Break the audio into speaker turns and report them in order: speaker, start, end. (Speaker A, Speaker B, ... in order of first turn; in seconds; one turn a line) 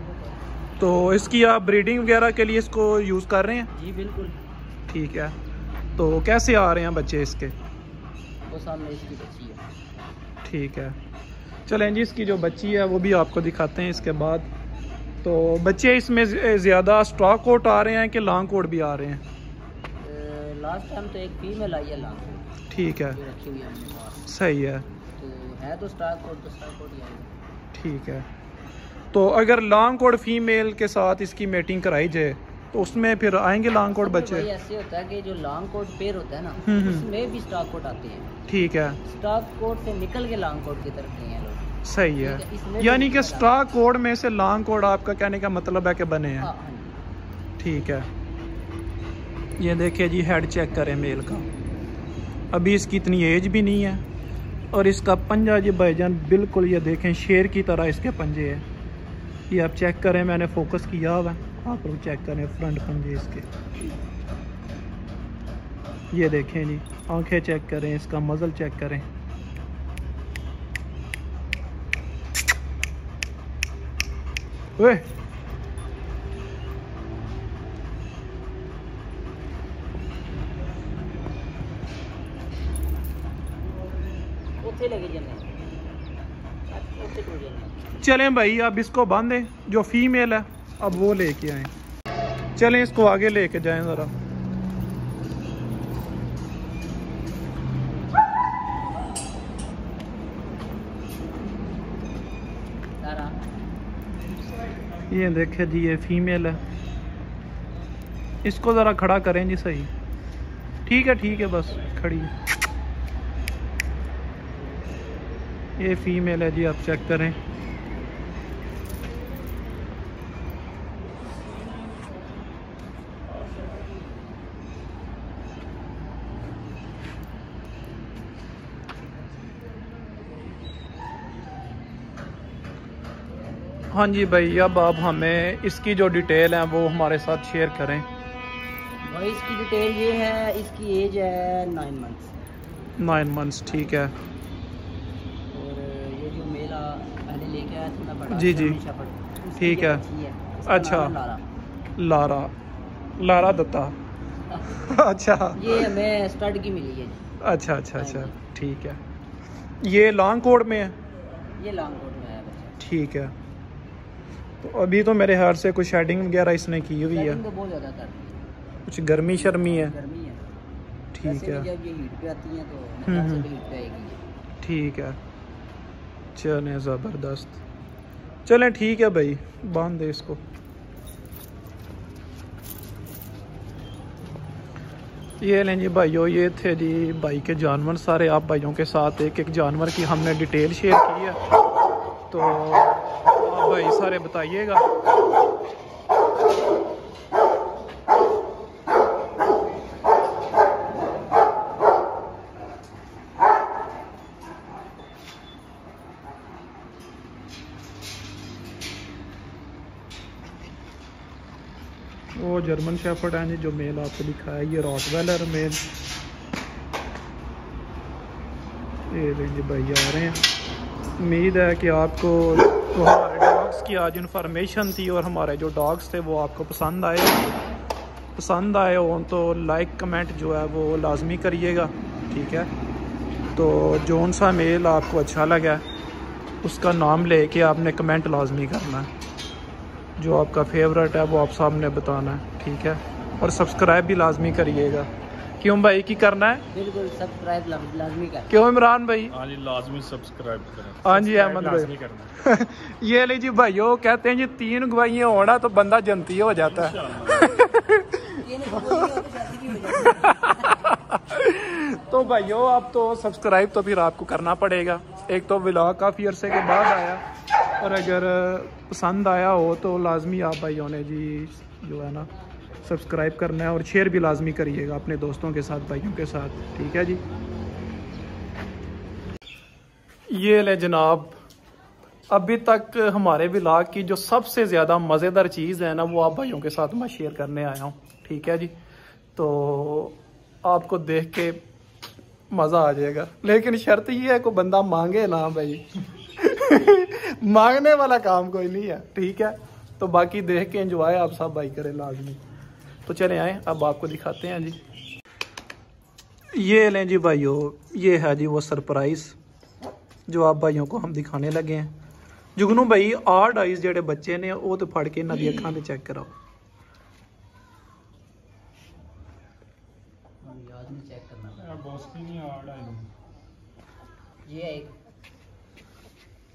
Speaker A: 0.8-3.7
Speaker B: 3.7-4.4
Speaker A: 4.9-5.3
Speaker A: 6.0-7.5
Speaker B: 8.5-9.6
Speaker A: 10.4-11.0
Speaker A: 11.7-14.5
Speaker A: 15.2-19.2
Speaker B: 20.0-24.3
Speaker A: 22.7-23.2
Speaker A: 24.3-24.9
Speaker B: 25.1-27.3
Speaker A: 27.7-28.3
Speaker A: 29.1-34.5
Speaker B: 33.9-38.3
Speaker A: 36.6-37.1
Speaker A: 38.5-39.0
Speaker B: 39.0-43.5
Speaker A: 41.8-46.5
Speaker B: 46.4-47.0
Speaker A: 47.6-48.1
Speaker A: 49.6-51.5
Speaker A: 52.5-54.0
Speaker A: 54.7-58.6
Speaker A: 59.5-63.5
Speaker A: 66.1-69.1
Speaker A: 74.8-75.1
Speaker B: 84.6-85.5
Speaker B: 86.7-87.9
Speaker A: 88.0-91.7
Speaker A: 92.6-94.1
Speaker B: 103.0-103.4
Speaker A: 105.1-106.6
Speaker A: 108.4-109.9
Speaker A: 110.9-112.3
Speaker A: 115.8-117.4
Speaker A: 133.9-138.1
Speaker B: 139.0-142.3
Speaker A: 143.0-144.1
Speaker B: 145.5-151.4
Speaker A: 148.3-148.8
Speaker A: 149.6-150.0
Speaker A: 150.7-151.2
Speaker A: 152.0-152.5
Speaker A: 153.2-154.0
Speaker B: 154.5-154.8
Speaker A: 154.7-155.9
Speaker B: 155.6-157.2
Speaker A: 157.4-159.0
Speaker B: 157.9-158.4
Speaker A: 159.8-161.0
Speaker B: 161.6-162.8
Speaker A: 162.8-163.3
Speaker A: 164.6-167.4
Speaker B: 167.1-168.5
Speaker A: 168.9-170.0
Speaker B: 169.3-170.4
Speaker A: 171.1-171.7
Speaker B: 171.2-174.2
Speaker A: 173.1-173.5
Speaker A: 174.6-175.2
Speaker A: 176.3-177.6
Speaker A: 178.5-180.4
Speaker A: 185.4-191.4
Speaker A: 192.3-194.9
Speaker A: 212.3-215.8
Speaker A: 219.1-220.4
Speaker A: 221.2-227.5
Speaker A: 228.4-232.7
Speaker A: 233.5-235.8
Speaker A: 236.6-239.1
Speaker A: 240.2-245.1
Speaker A: 245.6-246.6
Speaker B: 246.7-248.6
Speaker A: 248.5-249.3
Speaker C: 249.4-252.4
Speaker A: 251.0-259.2
Speaker C: 256.6-257.7
Speaker B: 258.4-260.9
Speaker A: 259.9-267.2
Speaker A: 267.8-272.3
Speaker A: 272.8-277.2
Speaker A: 280.3-281.4
Speaker A: 282.3-288.7
Speaker A: 289.4-291.6
Speaker A: 292.5-302.4
Speaker A: 303.1-304.8
Speaker A: 306.5-309.4
Speaker A: 310.3-311.9
Speaker A: 312.6-316.3
Speaker B: 315.3-315.8
Speaker B: 320.4-321.8
Speaker C: 321.6-323.1
Speaker B: 324.4-324.9